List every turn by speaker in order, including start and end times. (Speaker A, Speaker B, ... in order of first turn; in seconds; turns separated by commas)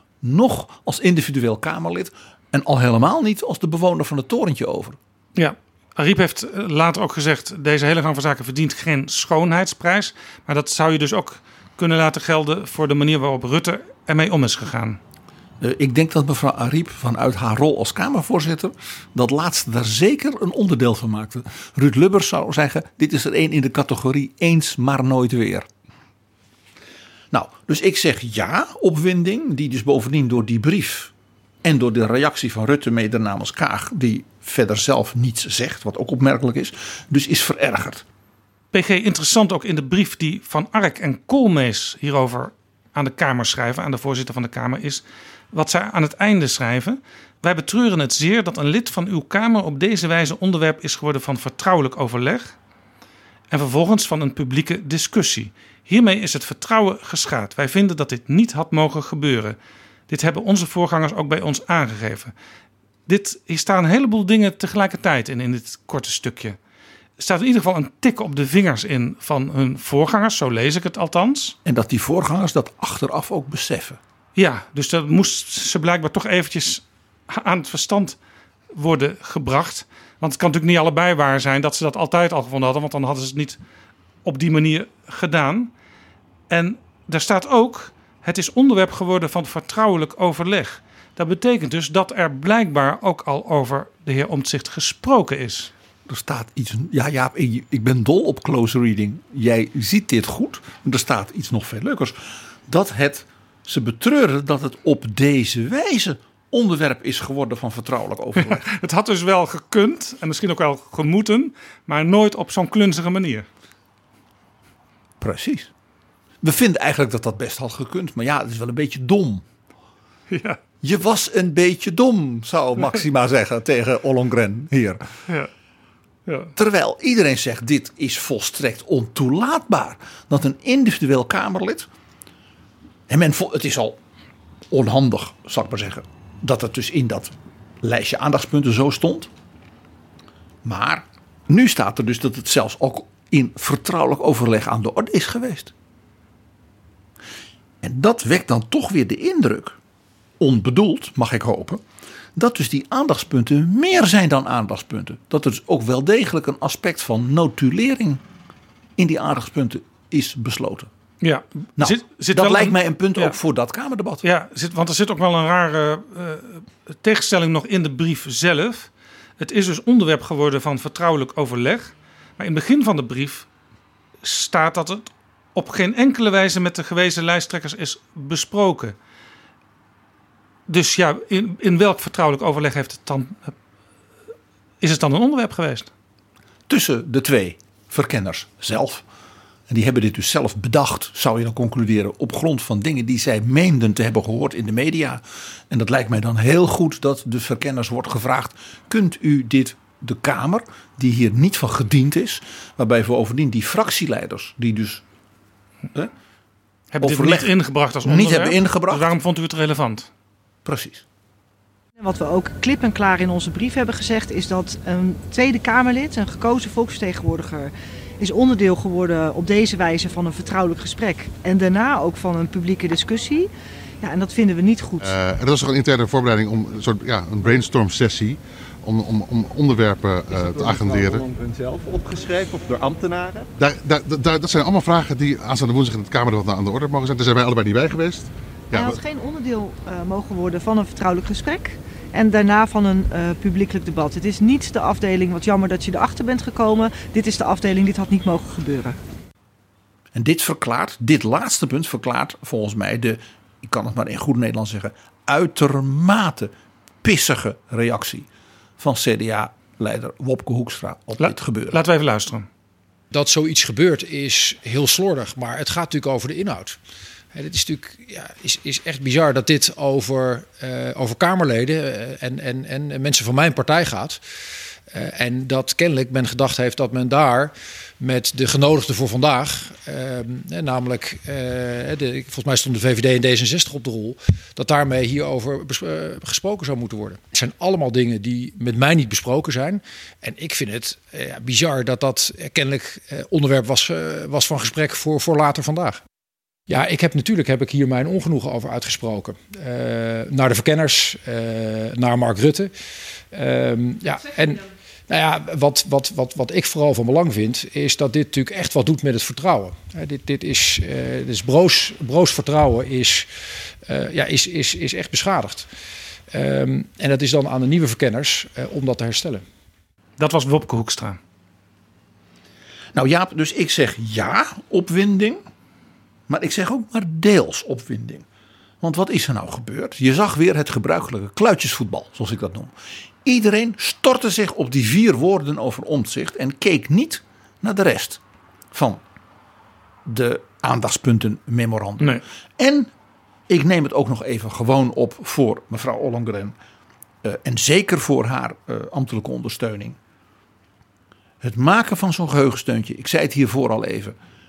Speaker A: 0.2-5.0, Speaker B: 5.3-15.0, Speaker A: 15.6-25.7, Speaker A: 27.3-38.0, Speaker B: 38.7-52.5, Speaker B: 53.5-59.5, Speaker B: 60.1-62.3, Speaker B: 63.1-66.6, Speaker B: 67.2-71.5, Speaker A: 71.6-74.0, Speaker B: 74.3-78.2, Speaker B: 78.7-83.6, Speaker B: 84.2-85.7, Speaker B: 86.5-95.7, Speaker A: 96.1-108.7, Speaker B: 108.4-113.5, Speaker A: 115.2-115.7, Speaker A: 116.4-119.5, Speaker B: 120.3-120.6, Speaker A: 120.8-125.0, Speaker B: 126.3-126.5, Speaker A: 126.5-131.9, Speaker A: 133.1-134.0, Speaker A: 134.7-139.3, Speaker A: 140.6-145.7, Speaker A: 147.8-149.8, Speaker A: 150.4-151.8, Speaker A: 152.3-158.2, Speaker A: 159.0-160.9, Speaker B: 161.2-163.3, Speaker A: 161.8-164.2, Speaker B: 164.2-173.5, Speaker B: 174.2-178.9, Speaker B: 180.7-183.5, Speaker B: 184.8-185.9, Speaker A: 186.7-189.0, Speaker A: 189.7-205.0, Speaker B: 206.9-210.1, Speaker A: 207.0-207.5, Speaker A: 208.0-209.1, Speaker A: 210.6-211.0, Speaker C: 212.0-223.5, Speaker C: 224.0-225.2, Speaker D: 225.0-231.2, Speaker E: 230.3-233.5, Speaker D: 233.6-239.0, Speaker C: 238.7-249.0, Speaker A: 250.1-256.5, Speaker A: 257.0-258.3, Speaker A: 258.8-261.8, Speaker B: 261.2-262.5, Speaker F: 263.1-266.8, Speaker F: 267.3-274.2, Speaker F: 274.9-296.0, Speaker F: 296.7-302.7, Speaker F: 303.3-313.3, Speaker F: 313.9-315.7, Speaker F: 316.3-319.4, Speaker B: 320.2-321.2, Speaker A: 322.9-325.4, Speaker A: 326.3-328.2, Speaker A: 328.8-338.2, Speaker A: 338.7-339.0, Speaker A: 340.0-342.9, Speaker A: 343.5-346.6, Speaker A: 347.2-350.0, Speaker A: 351.4-354.1